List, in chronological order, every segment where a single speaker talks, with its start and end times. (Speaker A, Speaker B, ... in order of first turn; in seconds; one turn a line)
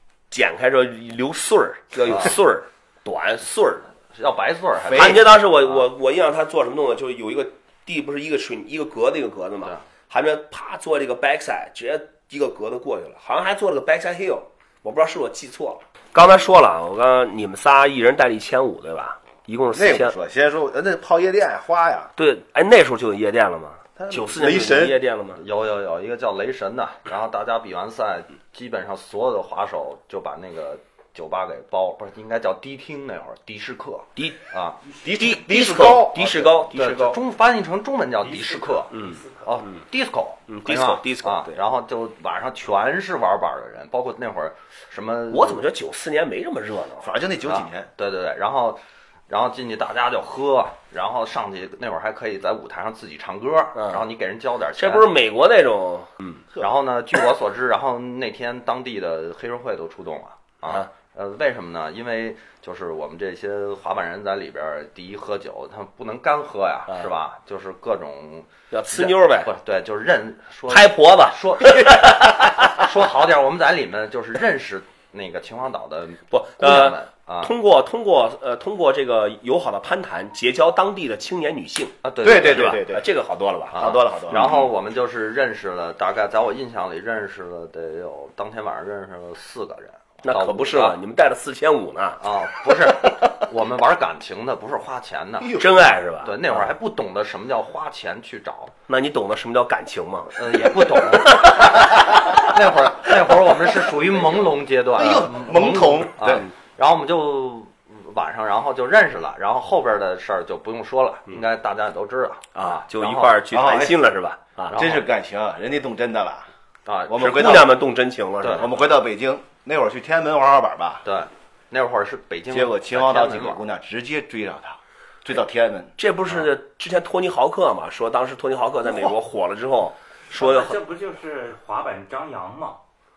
Speaker A: 0.3-3.9
Speaker B: 4.1-5.8
Speaker A: 4.9-20.1
Speaker C: 19.7-22.1
Speaker A: 22.1-25.4
Speaker C: 24.0-25.0
Speaker B: 25.4-34.8
Speaker C: 35.0-36.6
Speaker A: 35.0-37.2
Speaker B: 36.7-45.6
Speaker A: 38.9-39.2
Speaker A: 40.5-41.6
Speaker A: 45.3-47.1
Speaker C: 47.0-47.9
Speaker B: 47.4-55.1
Speaker A: 53.8-54.0
Speaker A: 54.8-56.4
Speaker B: 56.6-77.5
Speaker A: 68.7-69.5
Speaker A: 70.7-72.7
Speaker A: 76.3-84.6
Speaker B: 82.0-82.8
Speaker C: 82.2-83.0
Speaker C: 83.7-84.6
Speaker B: 83.7-91.0
Speaker A: 90.2-92.2
Speaker B: 92.2-95.7
Speaker A: 92.8-93.4
Speaker C: 95.4-95.8
Speaker A: 95.5-96.6
Speaker B: 96.2-98.7
Speaker A: 98.9-102.3
Speaker B: 100.3-114.0
Speaker C: 105.0-106.5
Speaker A: 112.5-114.8
Speaker C: 113.5-114.0
Speaker B: 114.7-115.0
Speaker C: 114.7-116.5
Speaker B: 116.8-117.6
Speaker C: 117.1-117.8
Speaker A: 117.1-118.8
Speaker B: 118.4-118.7
Speaker C: 118.5-121.0
Speaker B: 121.0-123.6
Speaker C: 122.5-125.9
Speaker A: 126.0-130.8
Speaker D: 130.4-132.8